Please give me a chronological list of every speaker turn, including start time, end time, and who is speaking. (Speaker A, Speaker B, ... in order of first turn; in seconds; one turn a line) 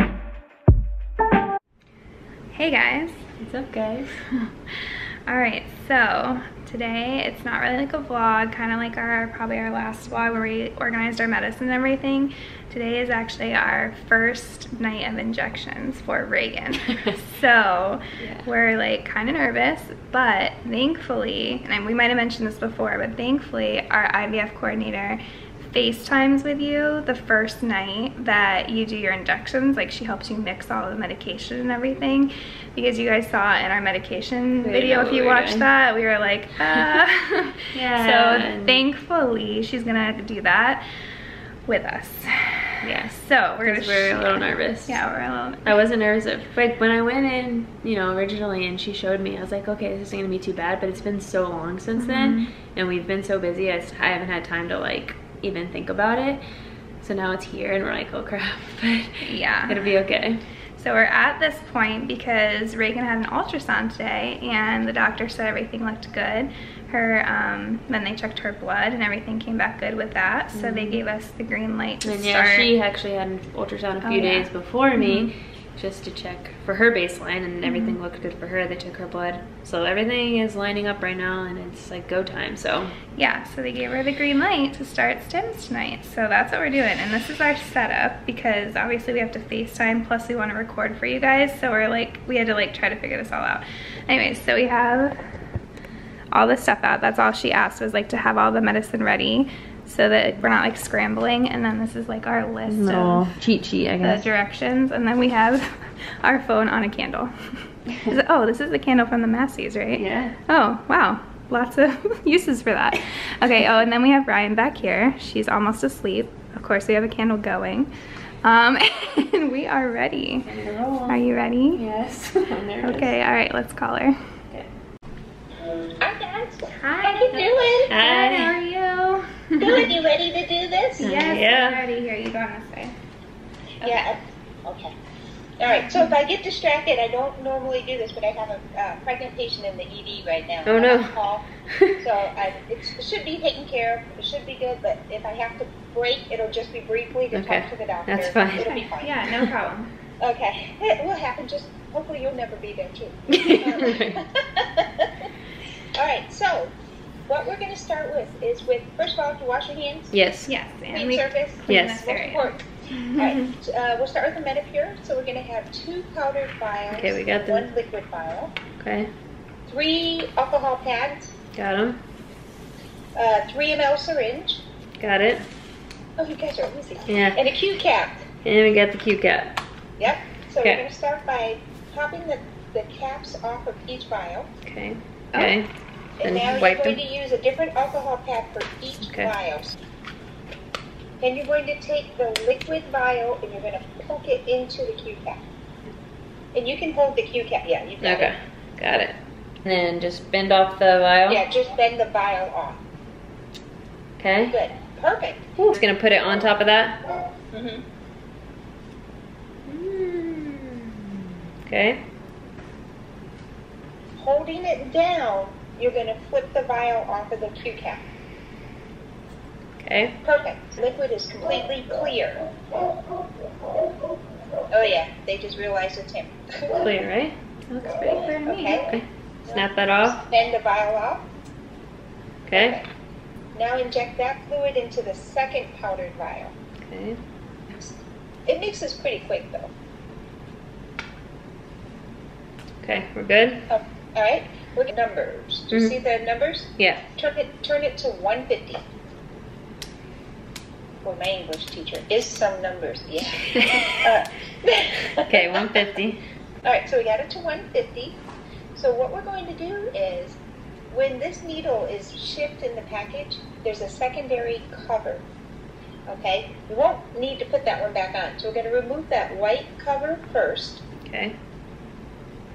Speaker A: 2.5-3.3
Speaker B: 3.4-4.1
Speaker A: 4.3-40.8
Speaker B: 18.2-18.4
Speaker B: 34.6-35.6
Speaker B: 37.7-38.8
Speaker A: 41.6-45.7
Speaker B: 42.8-45.0
Speaker B: 45.6-56.4
Speaker A: 52.0-52.5
Speaker B: 57.0-60.4
Speaker A: 59.2-60.0
Speaker A: 60.8-72.7
Speaker B: 70.5-71.0
Speaker B: 72.0-82.9
Speaker A: 74.0-75.3
Speaker A: 77.6-78.0
Speaker A: 83.2-95.2
Speaker A: 96.3-103.3
Speaker B: 102.7-104.2
Speaker A: 104.0-117.9
Speaker B: 109.9-110.3
Speaker A: 118.4-120.5
Speaker B: 120.4-123.1
Speaker A: 121.1-121.8
Speaker A: 122.8-124.2
Speaker C: 126.0-127.9
Speaker A: 126.7-129.9
Speaker B: 127.9-128.6
Speaker C: 129.6-131.1
Speaker A: 131.0-132.9
Speaker B: 131.0-131.8
Speaker A: 133.8-134.2
Speaker C: 133.8-134.9
Speaker C: 135.6-141.4
Speaker A: 135.7-136.1
Speaker B: 140.7-142.0
Speaker C: 142.0-149.2
Speaker B: 147.3-148.7
Speaker A: 148.6-149.9
Speaker C: 150.2-155.2
Speaker B: 153.3-154.2
Speaker C: 155.9-156.7
Speaker C: 157.3-160.2
Speaker B: 160.1-160.5
Speaker A: 160.4-163.4
Speaker C: 160.9-168.5
Speaker B: 161.7-162.1
Speaker B: 166.9-167.7
Speaker B: 168.8-169.1
Speaker C: 169.7-171.3
Speaker B: 171.6-172.0
Speaker C: 173.2-174.6
Speaker B: 175.0-175.4
Speaker C: 176.2-178.3
Speaker B: 177.1-177.4
Speaker B: 178.4-179.6
Speaker C: 180.0-184.5
Speaker B: 184.6-185.7
Speaker C: 186.2-189.8
Speaker B: 186.2-187.0
Speaker B: 189.0-189.3
Speaker C: 191.2-195.4
Speaker C: 196.5-198.3
Speaker B: 198.0-201.4
Speaker C: 201.3-202.8
Speaker B: 204.2-204.5
Speaker C: 204.5-205.5
Speaker B: 205.6-207.0
Speaker C: 207.5-207.8
Speaker B: 209.7-212.0
Speaker C: 214.2-218.0
Speaker B: 219.8-220.2
Speaker C: 220.2-222.5
Speaker C: 224.7-226.9
Speaker B: 226.7-227.3
Speaker A: 227.7-228.9
Speaker C: 228.4-228.9
Speaker B: 228.9-230.2
Speaker C: 229.4-231.2
Speaker B: 232.4-232.8
Speaker C: 232.5-232.9
Speaker C: 233.5-236.5
Speaker B: 236.8-237.2
Speaker C: 238.5-239.7
Speaker B: 242.8-243.7
Speaker C: 243.7-248.8
Speaker B: 245.7-246.0
Speaker B: 246.8-247.0
Speaker C: 251.0-255.7
Speaker B: 255.3-256.2
Speaker C: 256.6-258.2
Speaker C: 258.7-260.4
Speaker C: 260.9-265.2
Speaker C: 266.1-270.8
Speaker B: 271.1-271.3